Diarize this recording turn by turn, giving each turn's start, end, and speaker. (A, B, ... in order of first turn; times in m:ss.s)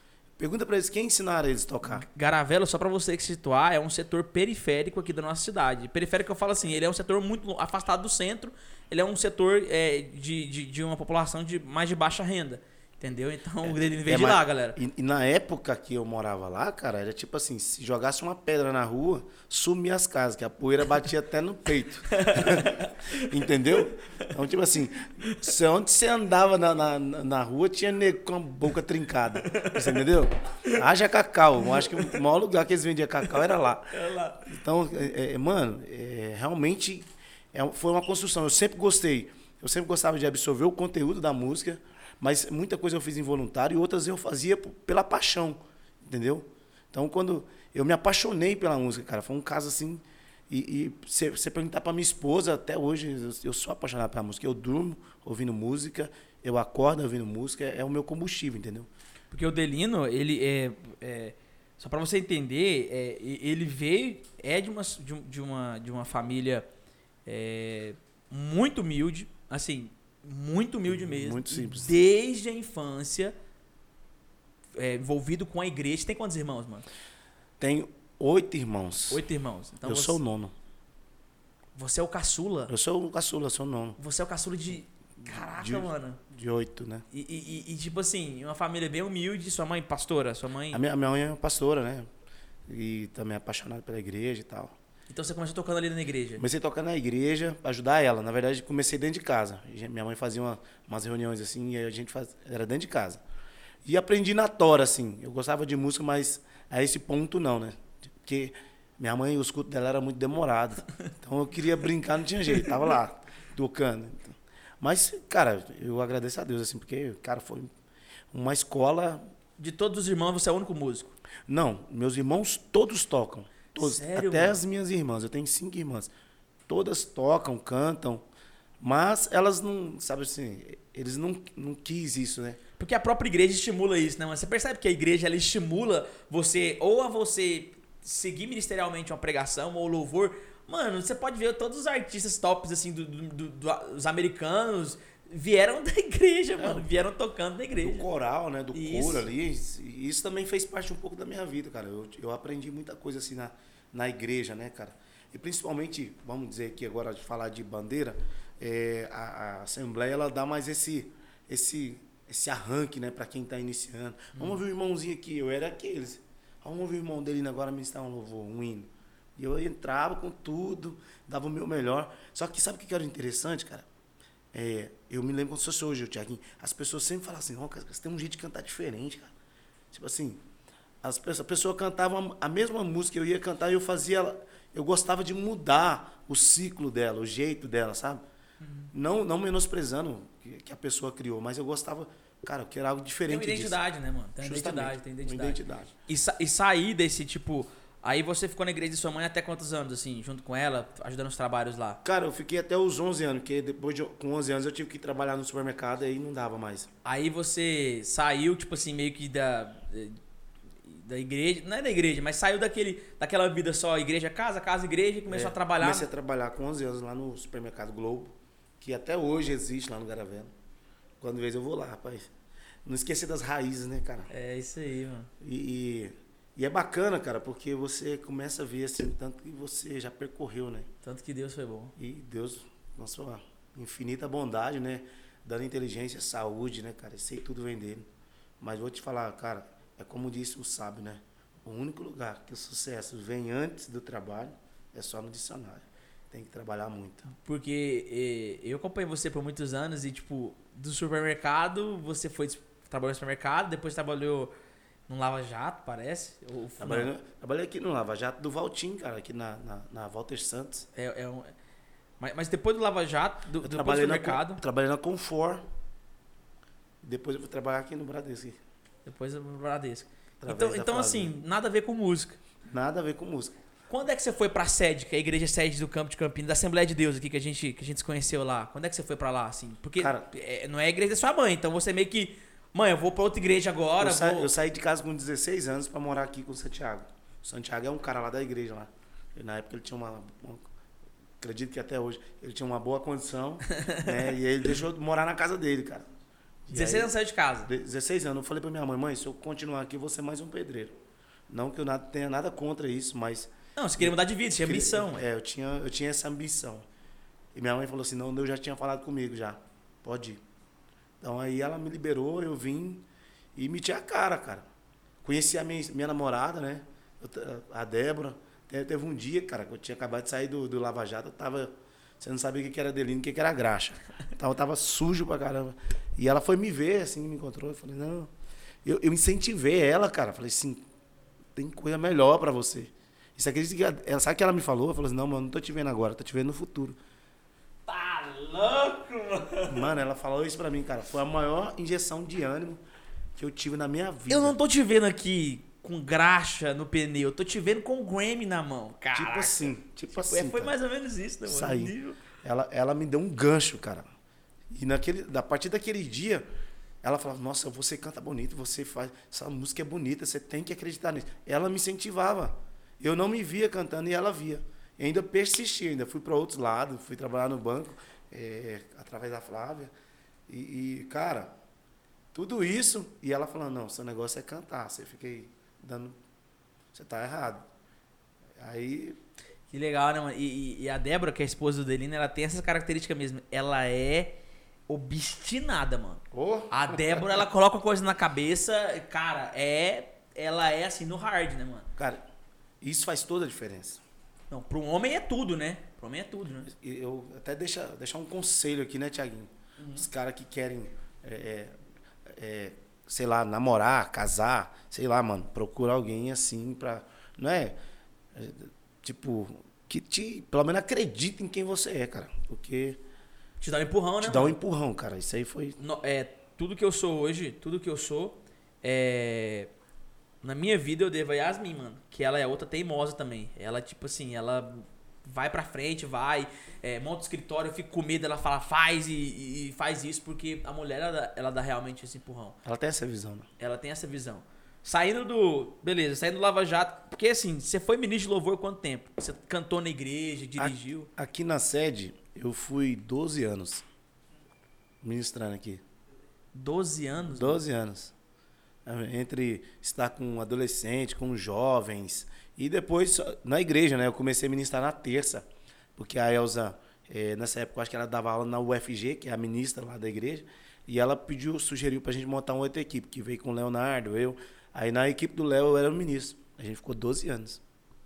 0:00.4-0:02.0 A
0:01.9-0:14.8 B
0:13.6-0:33.9 A
0:22.1-0:23.4 B
0:23.9-0:24.3 B
0:25.2-0:25.5 B
0:29.4-0:30.1 B
0:31.6-0:32.2 B
0:33.9-0:34.5 B
0:34.4-0:58.9 A
0:59.3-1:06.6 B
1:07.2-1:13.3 B
1:10.9-1:11.9 A
1:14.8-1:16.9 B
1:17.6-1:19.2 A
1:19.1-1:20.2 B
1:19.8-1:20.5 A
1:21.8-1:22.7 B
1:22.7-1:24.0 A
1:24.0-1:26.2 B
1:25.2-1:27.0 A
1:27.1-1:30.8 B
1:30.7-1:32.1 A
1:32.7-1:34.8 A
1:35.1-1:36.4 B
1:36.4-1:43.2 A
1:43.8-1:57.7 A
1:58.3-1:59.2 A
1:59.6-2:01.1 B
2:01.5-2:06.1 A
2:03.7-2:04.6 B
2:06.7-2:08.2 A
2:08.8-2:12.6 A
2:12.8-2:28.1 B
2:26.6-2:26.9 A
2:27.8-2:53.9 A
2:28.7-2:29.3 B
2:44.3-2:44.6 B
2:54.5-2:59.3 A
2:59.9-3:00.4 A
3:01.0-3:08.2 A
3:08.6-3:08.9 B
3:08.9-3:13.8 A
3:13.3-3:22.0 B
3:14.4-3:15.9 A
3:22.0-3:26.9 A
3:27.0-3:30.2 B
3:30.8-3:36.1 B
3:35.3-3:40.5 A
3:41.2-3:42.3 A
3:42.8-3:44.3 A
3:44.3-3:45.3 B
3:45.4-3:50.9 A
3:51.0-3:51.9 B
3:52.0-3:58.1 A
3:58.6-4:07.3 A
4:07.3-4:14.5 B
4:15.1-4:17.1 B
4:16.8-4:20.9 A
4:20.9-4:21.5 B
4:22.2-4:24.6 B
4:23.6-4:25.6 A
4:27.0-4:28.6 A
4:29.0-4:32.4 B
4:30.4-4:31.3 A
4:32.6-4:33.5 A
4:33.9-4:44.5 B
4:40.0-4:40.3 A
4:44.0-4:50.7 A
4:51.4-4:56.1 A
4:53.7-4:54.3 B
4:56.7-4:57.1 A
4:56.7-4:57.7 B
4:57.6-5:01.0 A
5:01.5-5:06.8 A
5:03.8-5:05.2 B
5:07.5-5:10.4 A
5:11.2-5:14.6 A
5:15.2-5:28.3 A
5:28.8-5:30.8 A
5:31.5-5:37.0 A
5:37.9-5:39.9 B
5:39.7-5:42.8 A
5:43.4-5:44.6 A
5:44.3-5:52.2 B
5:49.1-5:50.7 A
5:51.4-5:54.1 A
5:54.7-5:56.4 A
5:57.0-6:09.9 A
6:10.5-6:11.5 A
6:12.3-6:16.2 A
6:16.9-6:17.6 A
6:18.6-6:19.2 A
6:19.7-6:24.4 B
6:24.9-6:31.9 B
6:26.3-6:27.4 A
6:32.0-6:32.2 A
6:32.8-6:34.0 A
6:34.5-6:36.7 B
6:36.7-6:47.8 A
6:39.8-6:40.0 B
6:48.3-6:53.0 A
6:53.6-6:54.6 B
6:54.2-6:55.8 A
6:55.8-6:59.7 B
7:00.4-7:12.6 B
7:12.6-7:13.5 A
7:13.6-7:21.1 B
7:20.6-7:23.8 A
7:25.0-7:25.8 A
7:26.5-7:27.6 B
7:27.3-7:28.1 A
7:28.8-7:47.6 A